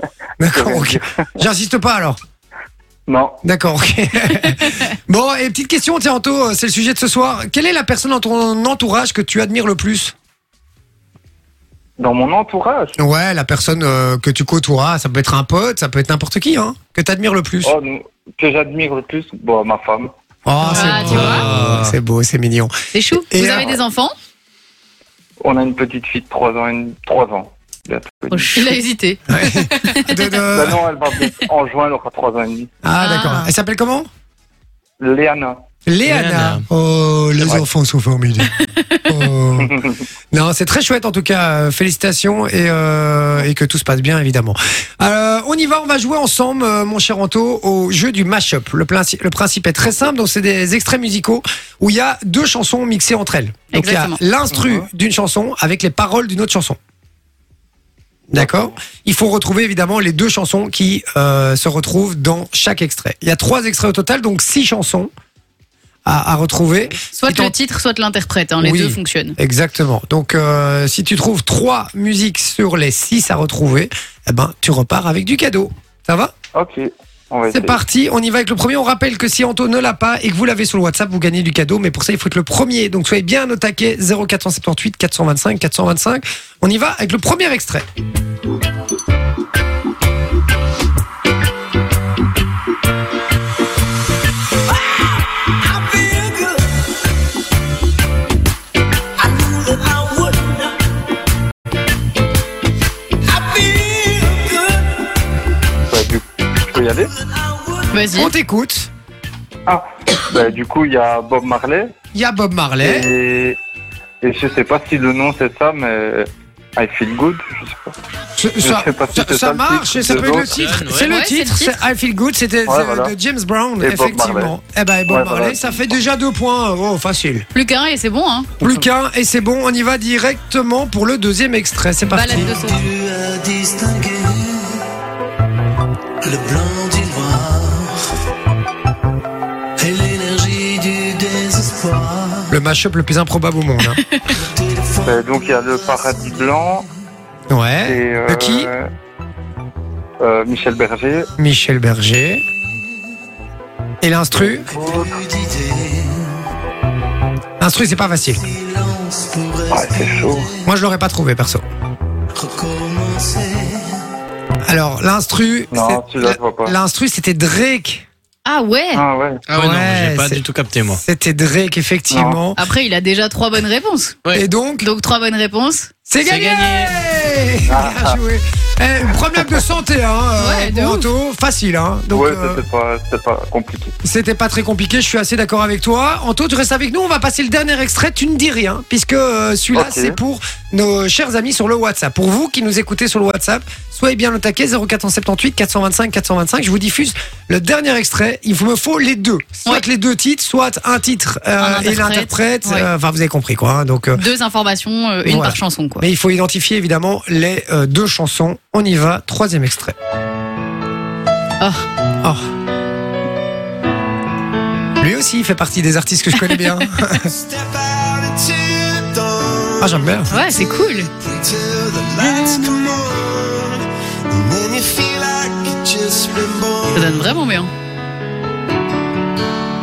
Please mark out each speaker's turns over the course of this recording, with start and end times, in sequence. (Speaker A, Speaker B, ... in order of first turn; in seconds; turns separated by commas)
Speaker A: 0.4-2.2, Speaker B: 0.5-1.3, Speaker B: 3.1-3.4, Speaker A: 3.4-10.1, Speaker B: 12.0-12.9, Speaker A: 13.0-17.7, Speaker B: 17.6-20.1, Speaker A: 20.4-23.8, Speaker C: 20.6-21.4, Speaker D: 20.7-21.4, Speaker E: 21.1-21.9, Speaker C: 22.9-24.1, Speaker B: 25.4-28.6, Speaker C: 28.3-28.7, Speaker D: 28.5-30.0, Speaker A: 29.3-30.8, Speaker B: 30.5-32.7, Speaker A: 32.8-34.1, Speaker C: 33.0-33.4, Speaker D: 33.1-33.4, Speaker B: 35.0-35.6, Speaker A: 35.9-38.5, Speaker E: 36.0-36.6, Speaker C: 38.6-39.0, Speaker A: 39.0-39.8, Speaker B: 39.6-40.0, Speaker A: 40.3-56.8, Speaker C: 53.7-54.2, Speaker B: 54.5-54.9, Speaker A: 58.3-65.1, Speaker B: 58.4-58.7, Speaker A: 66.0-67.5, Speaker C: 67.1-69.4, Speaker A: 68.6-76.3, Speaker B: 76.5-77.8, Speaker A: 77.5-87.8, Speaker F: 94.8-96.7, Speaker F: 99.2-100.7, Speaker F: 103.2-105.0, Speaker B: 105.9-107.1, Speaker F: 107.2-107.9, Speaker C: 107.9-108.3, Speaker A: 108.1-108.9, Speaker B: 109.7-111.9, Speaker A: 112.1-113.1, Speaker B: 112.8-113.6, Speaker B: 114.2-117.9, Speaker A: 118.3-127.5, Speaker B: 118.6-120.6, Speaker E: 120.3-121.1, Speaker C: 121.0-121.8, Speaker B: 122.7-123.1, Speaker B: 123.8-124.5, Speaker B: 125.1-125.8, Speaker C: 127.5-128.5, Speaker A: 128.6-132.5, Speaker C: 132.1-132.9, Speaker F: 132.2-134.8, Speaker F: 136.2-138.1, Speaker F: 139.8-142.6, Speaker A: 142.5-144.0, Speaker F: 144.3-146.6, Speaker B: 145.0-146.8, Speaker A: 147.5-148.7, Speaker B: 147.8-148.9, Speaker B: 150.2-151.3, Speaker A: 151.4-152.4, Speaker A: 154.0-154.7, Speaker B: 154.4-155.2, Speaker F: 154.7-156.4, Speaker A: 157.6-158.4, Speaker F: 158.3-160.6, Speaker B: 159.7-160.5, Speaker A: 160.6-161.6, Speaker F: 162.3-164.0, Speaker A: 164.7-168.1, Speaker B: 165.7-166.7, Speaker C: 168.4-169.0, Speaker B: 168.9-169.4, Speaker E: 169.5-171.0, Speaker A: 169.5-170.4, Speaker A: 170.9-172.6, Speaker B: 172.1-172.4, Speaker C: 172.6-174.2, Speaker A: 174.3-174.9, Speaker C: 174.8-175.9, Speaker A: 176.1-182.6, Speaker E: 176.2-177.0, Speaker B: 177.7-178.2, Speaker C: 180.4-181.1, Speaker B: 182.1-183.9, Speaker A: 184.0-204.2, Speaker B: 189.7-190.2, Speaker C: 201.6-202.9, Speaker C: 204.1-206.1, Speaker A: 205.2-209.9, Speaker C: 211.6-211.8, Speaker A: 215.0-217.3, Speaker C: 216.4-216.7, Speaker F: 217.1-227.3, Speaker A: 219.8-220.3, Speaker C: 220.3-221.1, Speaker C: 226.9-227.7